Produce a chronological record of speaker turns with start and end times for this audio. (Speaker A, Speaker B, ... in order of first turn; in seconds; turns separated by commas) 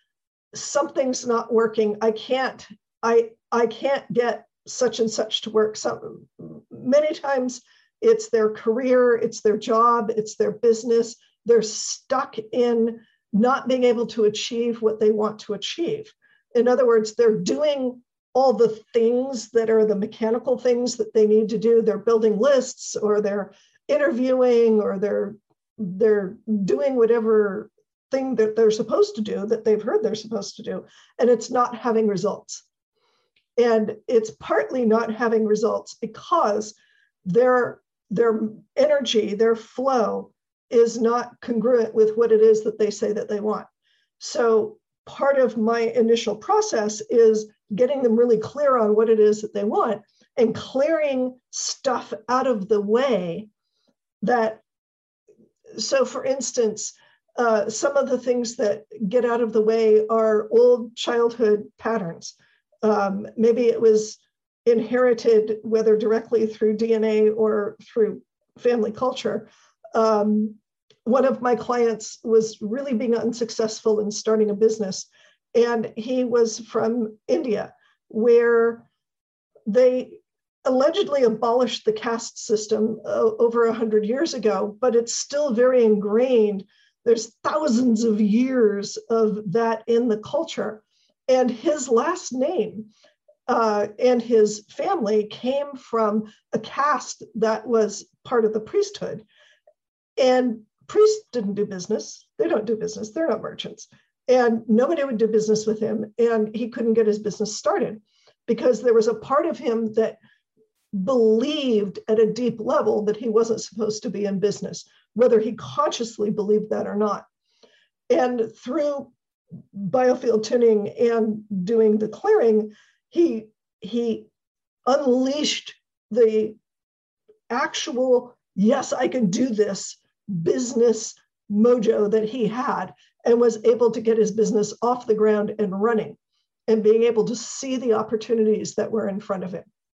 Speaker A: 0.5-32.6, Speaker A: 33.6-43.7, Speaker A: 44.2-53.5, Speaker A: 54.2-54.6, Speaker A: 55.7-78.8, Speaker A: 79.7-92.9, Speaker A: 93.5-99.2, Speaker A: 100.2-110.2, Speaker A: 110.9-117.2, Speaker A: 118.1-119.1, Speaker A: 119.7-124.3, Speaker A: 124.8-126.6, Speaker A: 127.5-139.7